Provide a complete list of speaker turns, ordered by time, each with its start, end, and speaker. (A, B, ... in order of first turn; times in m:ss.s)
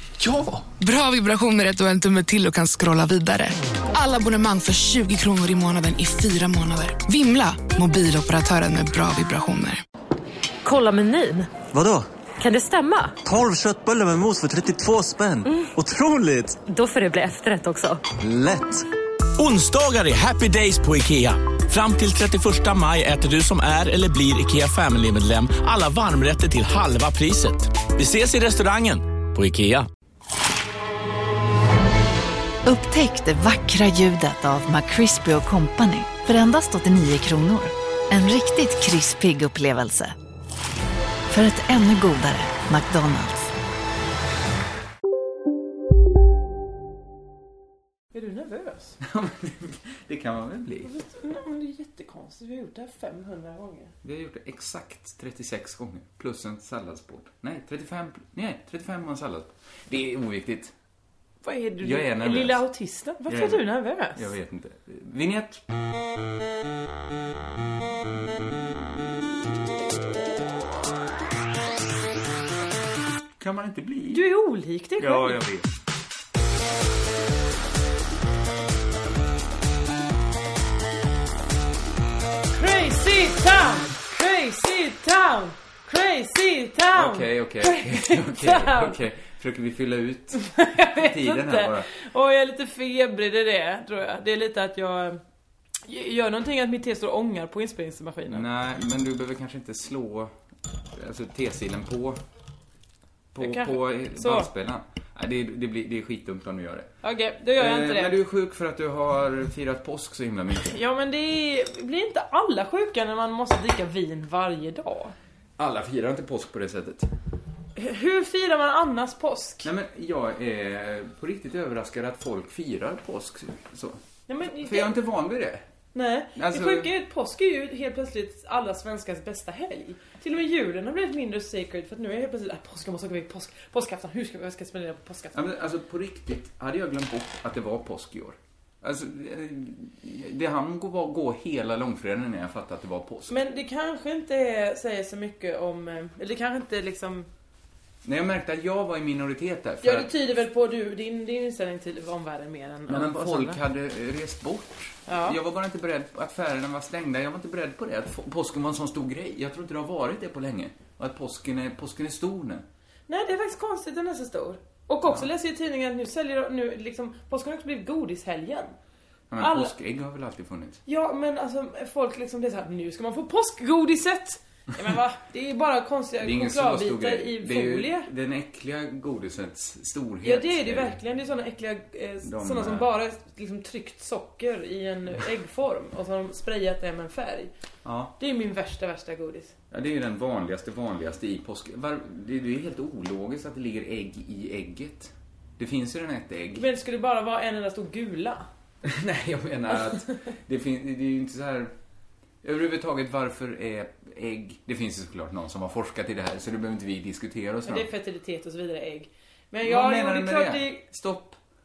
0:00.7-0:09.8 A
0:10.6-0:11.5 B
0:11.7-0:12.1 C
0:12.4-0:13.2 B
0:13.2-0:16.6 C
0:16.6-0:18.0 B
0:18.2-0:18.8 C
0:19.4-0:29.9 D
0:32.6-0:40.1 E
0:41.3-0:43.5 E
0:48.1-0:49.0 F
0:49.0-0:50.9 G
0:50.8-0:53.9 F
0:54.0-1:00.7 G
1:01.4-1:04.3 F
1:01.8-1:02.6 G
1:03.3-1:05.6 G
1:13.4-1:14.2 G
1:14.1-1:15.4 F
1:15.0-1:15.7 G
1:22.5-1:28.9 F
1:26.9-1:31.9 G
1:30.4-1:35.2 F
1:35.8-1:38.4 F
1:38.3-1:40.3 G
1:40.9-1:42.2 G
1:43.3-1:46.9 G
1:43.4-1:44.5 F
1:47.0-1:48.2 F
1:47.6-1:50.8 G
1:50.6-1:55.1 F
1:55.6-1:57.1 G
1:57.8-1:59.7 F
1:59.6-2:04.0 G
2:04.3-2:04.9 F
2:04.6-2:05.7 G
2:05.9-2:15.4 F
2:06.3-2:06.9 G
2:15.3-2:23.4 G
2:23.3-2:27.3 F
2:28.0-2:30.1 G
2:29.8-2:33.6 F
2:32.9-2:42.6 G
2:35.1-2:35.4 F
2:43.1-2:48.7 F
2:49.3-2:50.8 G
2:49.4-2:49.7 F
2:50.8-2:58.1 F
2:56.2-3:01.0 G
3:00.2-3:07.5 F
3:02.2-3:02.9 G
3:07.8-3:08.1 G
3:08.2-3:09.5 F
3:09.7-3:16.6 G
3:16.5-3:18.4 F
3:18.8-3:21.7 G
3:22.4-3:27.9 G
3:27.6-3:30.8 F
3:29.6-3:31.4 G